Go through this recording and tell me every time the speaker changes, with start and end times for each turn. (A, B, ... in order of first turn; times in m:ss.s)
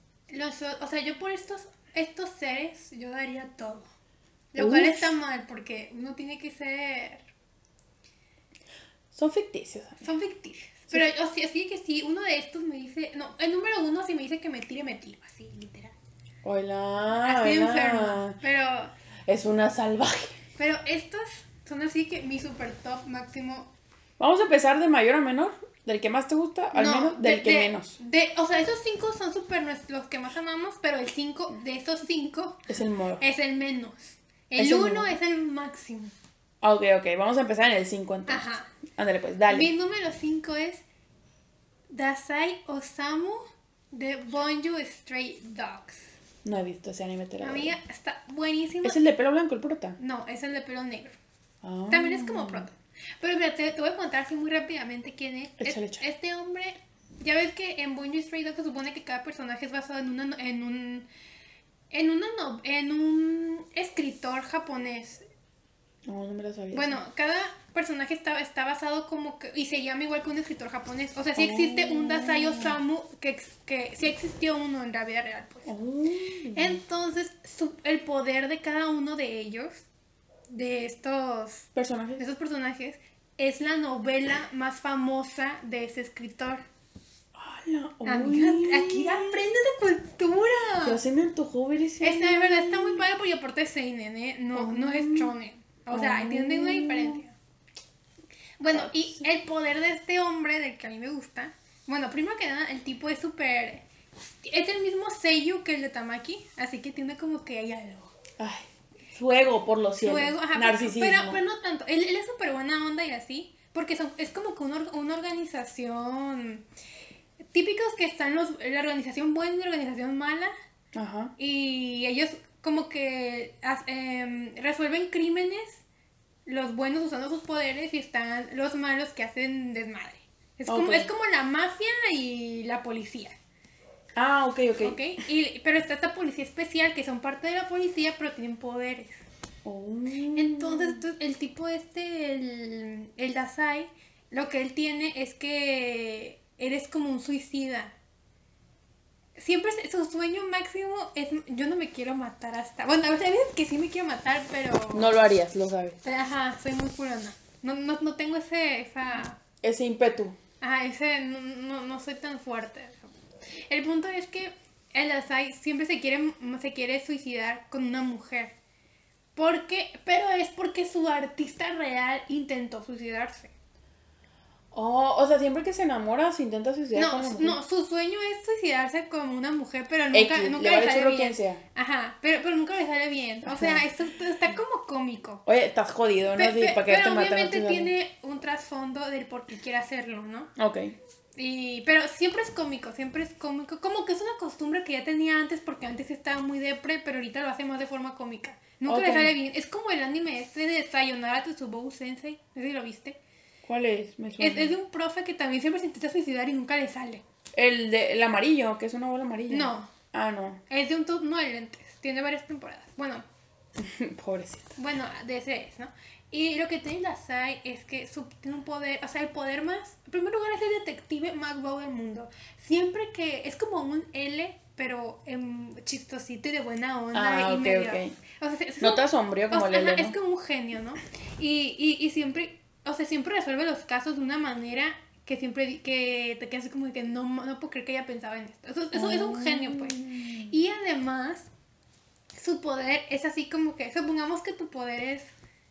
0:00.3-0:03.9 A
0:04.5-0:07.2 A
0:04.6-0:05.1 B
0:09.1-0:10.0 B
0:10.0-0:15.9 A
0:16.4-0:18.4 B
0:17.2-0:18.9 A
0:19.3-0:20.4 B
0:20.6-0:23.7 A
0:24.2-0:28.0 B
0:26.7-0:36.1 A
0:32.7-0:33.2 B
0:34.6-0:35.1 B
0:36.6-0:38.4 B
0:38.3-0:38.7 A
0:39.0-0:39.7 B
0:39.5-0:40.8 A
0:41.9-0:46.1 A
0:46.4-0:47.8 B
0:47.4-0:49.0 A
0:48.8-0:50.0 B
0:50.0-0:51.2 A
0:51.6-0:52.7 B
0:51.9-1:01.1 A
0:55.6-0:56.0 B
1:01.9-1:05.3 A
1:06.1-1:07.0 B
1:06.7-1:15.7 A
1:11.4-1:12.8 B
1:15.7-1:16.8 B
1:16.5-1:19.8 A
1:20.5-1:26.6 A
1:21.8-1:22.2 B
1:27.4-1:29.4 B
1:28.0-1:31.0 A
1:30.8-1:33.0 B
1:32.0-1:37.4 A
1:34.5-1:35.3 B
1:35.9-1:37.2 B
1:38.6-1:43.8 A
1:38.7-1:39.2 B
1:44.4-1:48.2 A
1:48.4-1:51.4 B
1:50.0-1:56.6 A
1:57.5-2:00.5 A
2:01.0-2:01.3 B
2:01.4-2:05.8 A
2:06.5-2:13.4 A
2:10.7-2:11.1 B
2:14.2-2:15.0 B
2:14.8-2:19.2 A
2:19.6-2:21.0 B
2:20.4-2:27.9 A
2:29.4-2:35.2 A
2:34.9-2:36.0 B
2:36.0-2:39.4 A
2:39.6-2:40.4 B
2:40.6-2:43.1 A
2:43.7-2:48.5 A
2:49.4-2:53.5 A
2:54.7-2:57.6 B
2:56.9-3:05.4 A
3:00.1-3:01.6 B
3:03.4-3:03.8 B
3:05.5-3:07.9 B
3:06.3-3:10.5 A
3:10.6-3:11.0 B
3:11.4-3:23.2 A
3:18.9-3:19.4 B
3:23.7-3:24.8 B
3:24.4-3:27.2 A
3:27.6-3:30.6 B
3:29.5-3:29.9 A
3:30.7-3:33.2 A
3:33.8-3:34.7 B
3:34.8-4:01.5 A
3:47.1-3:48.2 B
3:48.8-3:50.2 B
3:58.9-4:00.6 B
4:02.3-4:05.3 A